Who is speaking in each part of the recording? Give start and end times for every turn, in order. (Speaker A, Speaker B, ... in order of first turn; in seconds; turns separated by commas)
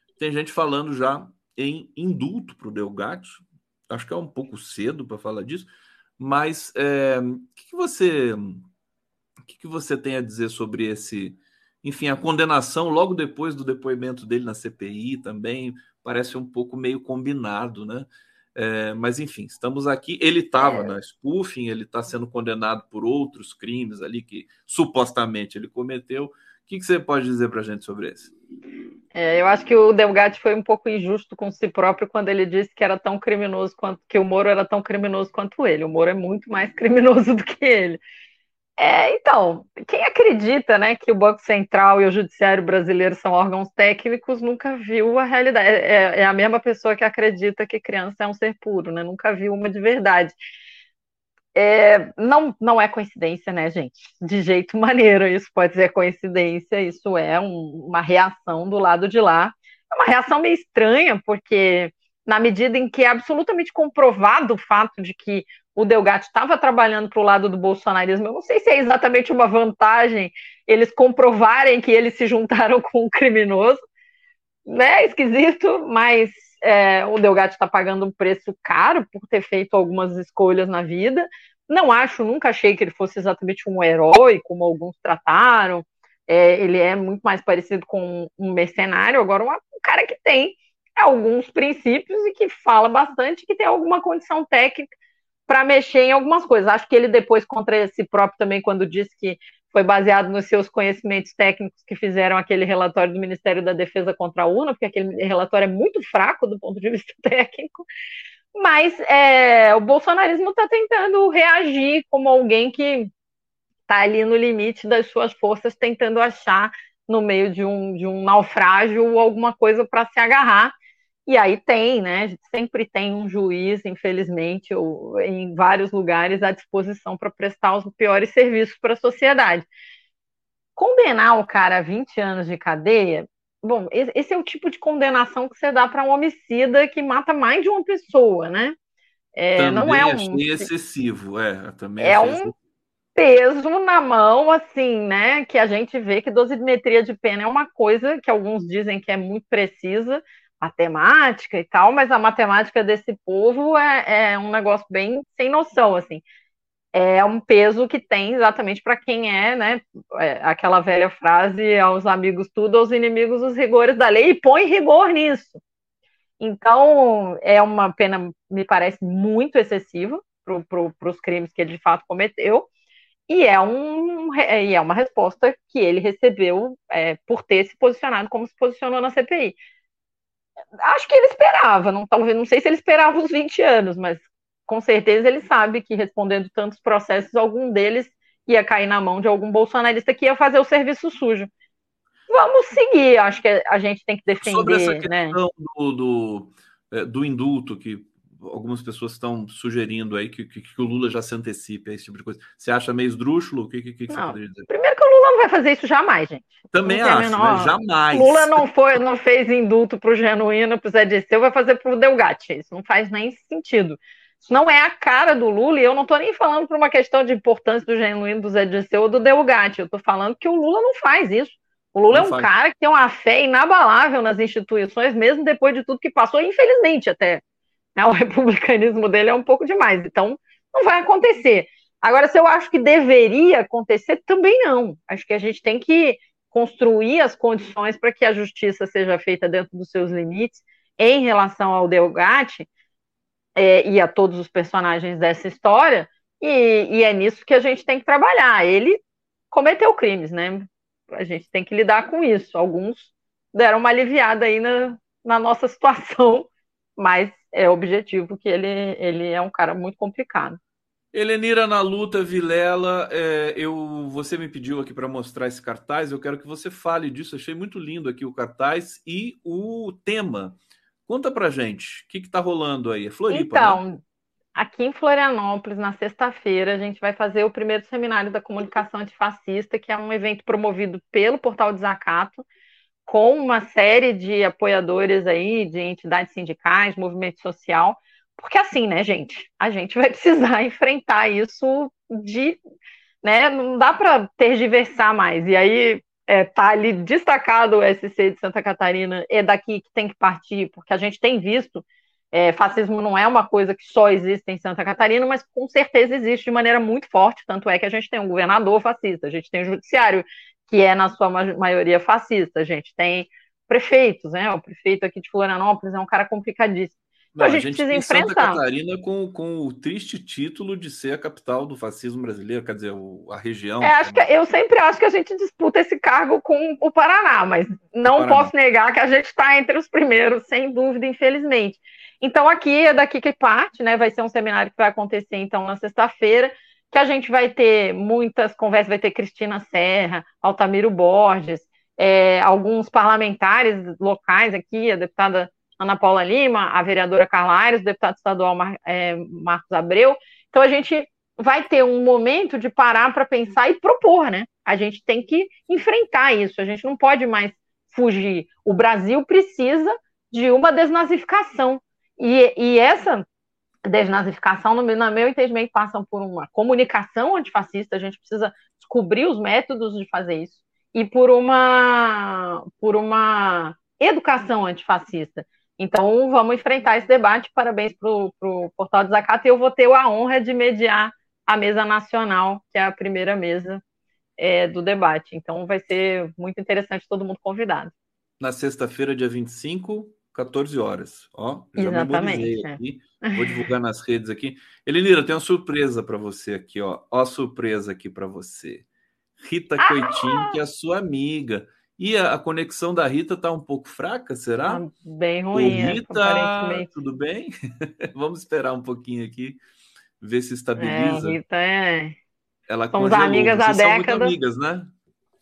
Speaker A: 0.2-8.7, Speaker A: 9.5-28.3, Speaker B: 20.6-20.9, Speaker B: 29.1-38.0, Speaker B: 38.8-50.4, Speaker B: 51.5-73.8, Speaker B: 74.7-94.9, Speaker B: 95.5-107.8, Speaker B: 108.5-113.1, Speaker B: 113.9-120.7, Speaker B: 121.3-129.7, Speaker B: 130.8-138.8, Speaker B: 139.3-140.7, Speaker A: 139.6-142.5, Speaker B: 142.0-142.5, Speaker B: 143.2-156.2, Speaker B: 156.9-165.6, Speaker B: 166.4-172.7, Speaker B: 173.3-179.6, Speaker B: 180.8-191.5, Speaker B: 192.3-195.4, Speaker A: 194.4-204.7, Speaker B: 204.1-227.4, Speaker A: 206.7-208.7, Speaker A: 222.1-222.5, Speaker B: 228.0-242.7, Speaker B: 243.6-249.0, Speaker B: 249.5-260.6, Speaker A: 261.1-273.8, Speaker B: 273.3-274.0, Speaker B: 274.6-282.4, Speaker B: 283.1-292.6, Speaker B: 293.2-318.6, Speaker A: 317.4-324.3, Speaker B: 323.8-363.2, Speaker A: 328.1-328.5, Speaker B: 363.9-383.8, Speaker B: 384.4-387.9, Speaker A: 388.4-398.9, Speaker B: 391.8-393.7, Speaker A: 399.4-404.8, Speaker B: 399.8-400.6, Speaker B: 404.7-406.9, Speaker A: 405.5-409.6, Speaker A: 410.2-411.4, Speaker B: 410.8-412.2, Speaker A: 412.7-414.9, Speaker B: 412.9-414.3